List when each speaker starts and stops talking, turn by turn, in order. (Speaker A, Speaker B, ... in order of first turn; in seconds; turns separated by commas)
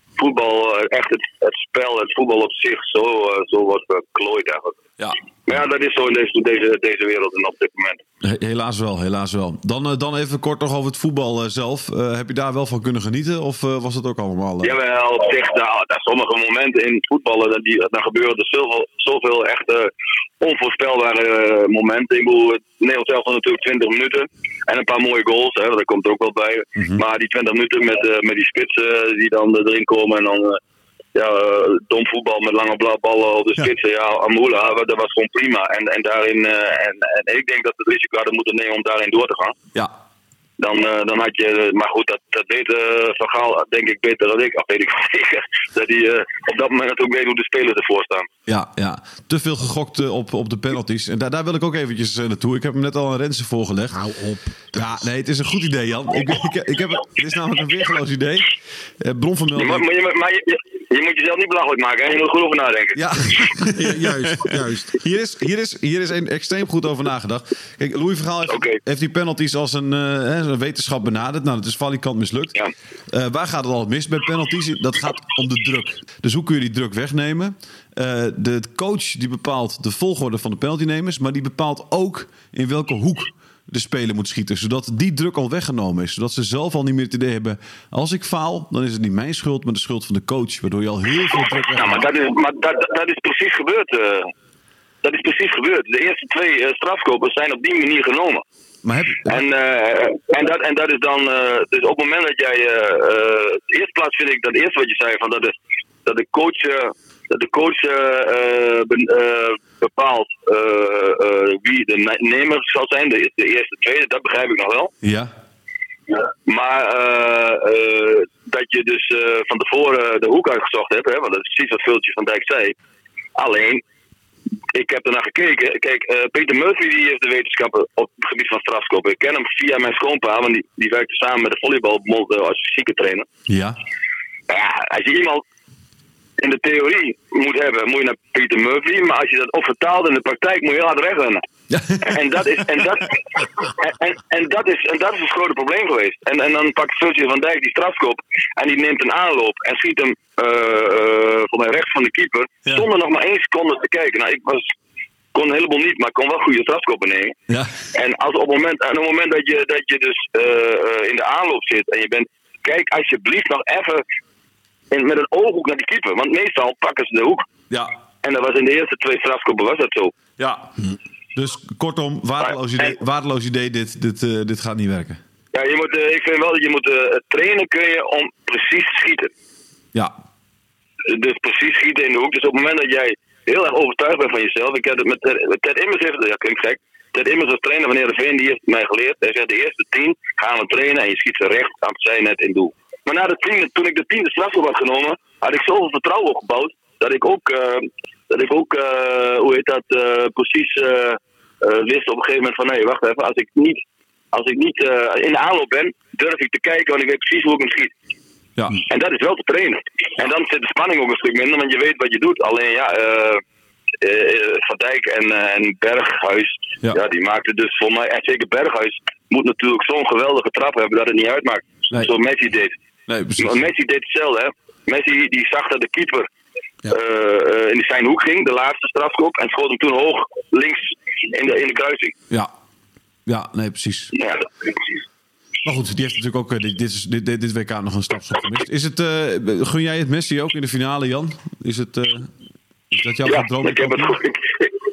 Speaker A: 0.2-4.8, Speaker A: 5.5-8.0, Speaker B: 8.2-14.8, Speaker A: 14.6-30.6, Speaker A: 31.1-39.5, Speaker A: 40.6-48.3, Speaker B: 48.5-54.0, Speaker C: 53.9-55.1, Speaker B: 54.8-59.9, Speaker A: 59.6-63.0, Speaker B: 63.0-72.6, Speaker C: 63.6-65.0, Speaker A: 68.5-68.8, Speaker B: 73.1-92.1, Speaker A: 91.6-94.3, Speaker A: 95.0-98.4, Speaker B: 98.8-99.4, Speaker A: 99.3-114.9, Speaker B: 115.0-115.3, Speaker A: 116.1-122.8, Speaker A: 123.4-123.8, Speaker A: 124.7-133.3, Speaker B: 133.5-133.8, Speaker A: 134.5-135.4, Speaker A: 136.4-141.4, Speaker B: 141.7-142.4, Speaker A: 142.0-154.7, Speaker A: 155.3-157.4, Speaker A: 157.9-164.0, Speaker A: 164.9-167.4, Speaker A: 168.2-170.2, Speaker B: 170.4-170.7, Speaker B: 171.3-175.2, Speaker A: 172.4-172.9, Speaker A: 175.5-179.3, Speaker A: 181.1-207.9, Speaker B: 208.6-208.8, Speaker A: 208.9-213.4, Speaker A: 214.0-222.7, Speaker B: 223.1-223.6, Speaker A: 223.4-226.3, Speaker A: 226.9-232.2, Speaker B: 233.3-234.1, Speaker A: 234.2-234.5, Speaker B: 235.6-242.3, Speaker B: 242.9-244.2, Speaker A: 243.3-244.7